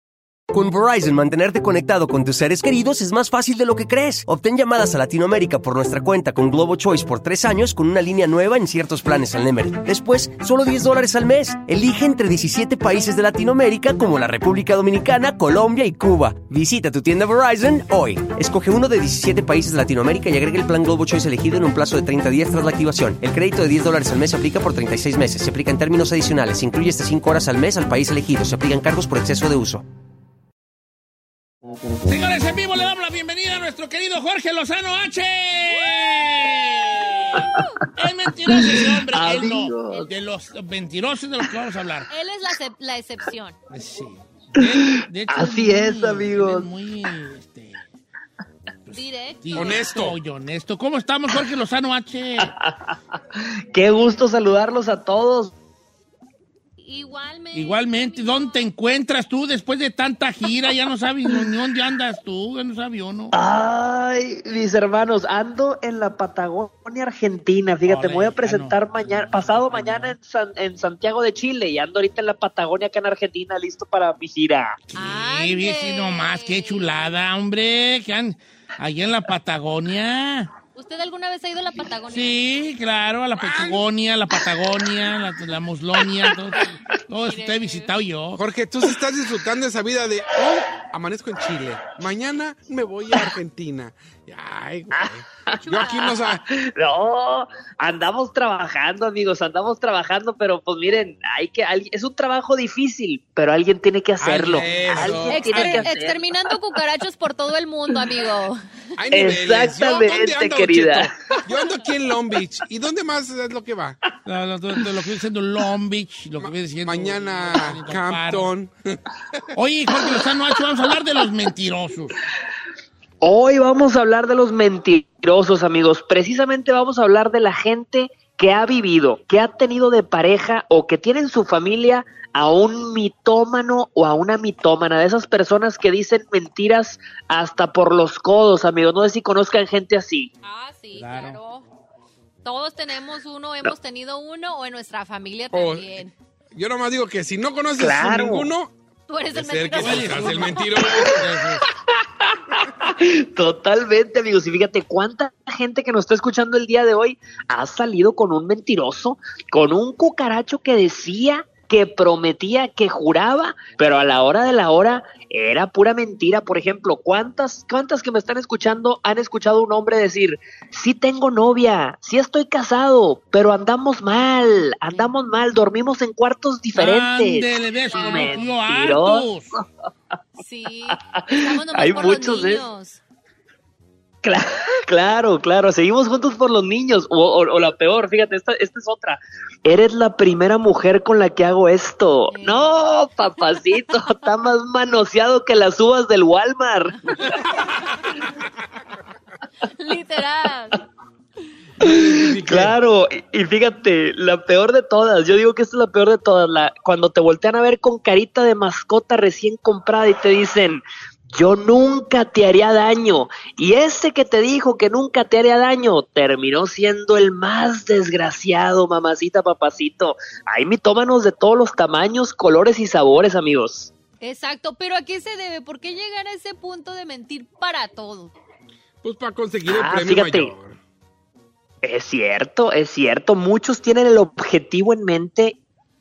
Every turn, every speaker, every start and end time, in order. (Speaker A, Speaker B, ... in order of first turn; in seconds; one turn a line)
Speaker A: 0.5-29.8
Speaker B: 32.0-42.1
Speaker C: 38.5-40.1
Speaker D: 42.1-43.5
Speaker B: 43.7-47.8
Speaker C: 45.3-46.7
Speaker B: 48.9-52.5
Speaker D: 48.9-49.9
Speaker E: 49.5-50.2
Speaker C: 52.4-55.5
Speaker D: 56.8-58.7
Speaker B: 57.5-63.3
Speaker C: 63.3-74.8
Speaker B: 67.8-70.1
Speaker B: 74.9-80.5
Speaker D: 75.0-77.1
Speaker D: 80.8-82.4
Speaker B: 82.1-88.4
Speaker D: 87.2-87.9
Speaker E: 88.4-96.4
Speaker C: 94.9-95.6
Speaker D: 95.5-96.3
Speaker C: 96.2-106.5
Speaker B: 104.2-105.8
Speaker E: 104.4-105.5
Speaker D: 105.3-108.6
Speaker E: 109.0-114.0
Speaker C: 109.1-111.1
Speaker B: 114.2-118.5
Speaker E: 116.4-119.0
Speaker B: 119.5-122.2
Speaker C: 123.2-140.3
Speaker D: 140.4-141.7
Speaker B: 140.9-141.4
Speaker D: 142.4-146.1
Speaker E: 145.5-146.0
Speaker E: 146.5-148.7
Speaker C: 147.8-148.5
Speaker D: 149.1-151.0
Speaker E: 149.3-151.2
Speaker B: 149.8-151.6
Speaker C: 151.9-179.6
Speaker D: 174.8-175.1
Speaker B: 176.7-179.5
Speaker D: 177.9-178.5
Speaker D: 180.4-183.0
Speaker C: 180.9-182.7
Speaker C: 184.2-197.4
Speaker D: 192.3-192.7
Speaker D: 197.1-197.4
Speaker D: 199.6-200.8
Speaker E: 201.8-202.8
Speaker C: 201.8-223.9
Speaker D: 224.2-228.3
Speaker E: 229.0-230.8
Speaker C: 229.7-230.5
Speaker C: 231.8-235.6